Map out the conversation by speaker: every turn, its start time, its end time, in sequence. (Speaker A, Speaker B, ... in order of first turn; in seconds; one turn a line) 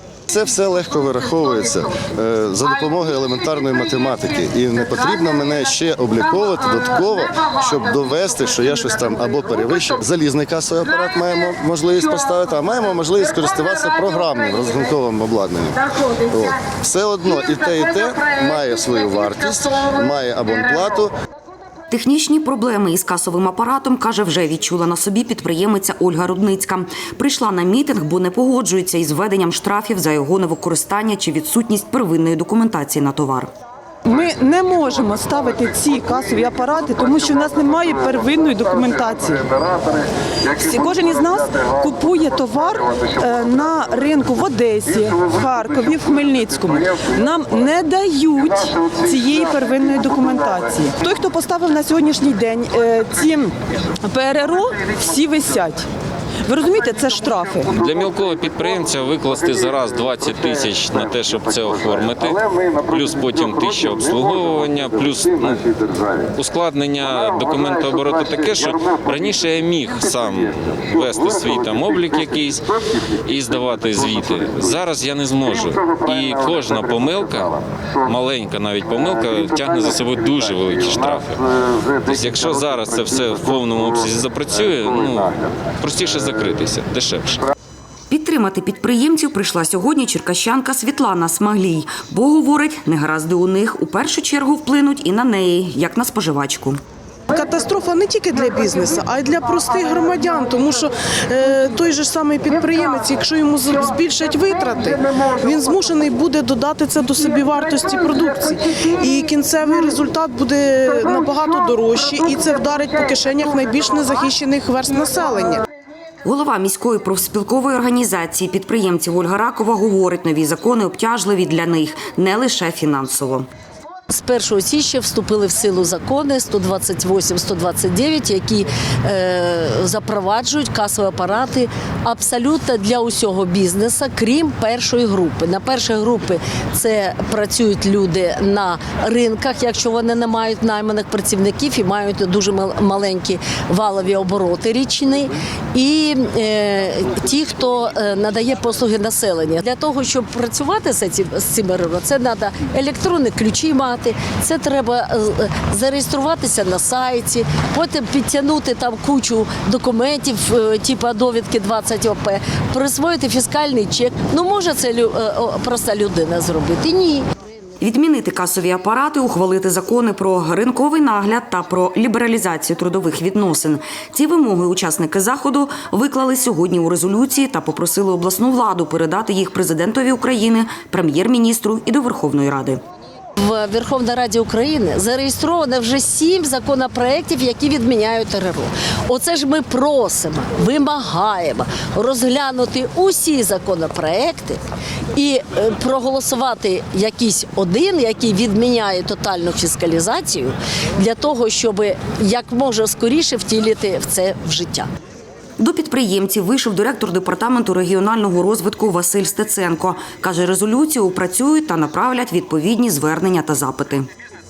Speaker A: 0.3-21.1
Speaker B: 21.9-33.5
Speaker C: 34.0-39.7
Speaker C: 40.4-55.9
Speaker C: 56.4-57.7
Speaker D: 57.7-87.5
Speaker B: 88.1-96.8
Speaker E: 97.3-115.6
Speaker B: 116.2-123.5
Speaker F: 124.1-167.3
Speaker B: 167.8-182.8
Speaker F: 183.4-194.6
Speaker F: 195.2-204.9
Speaker B: 205.6-214.1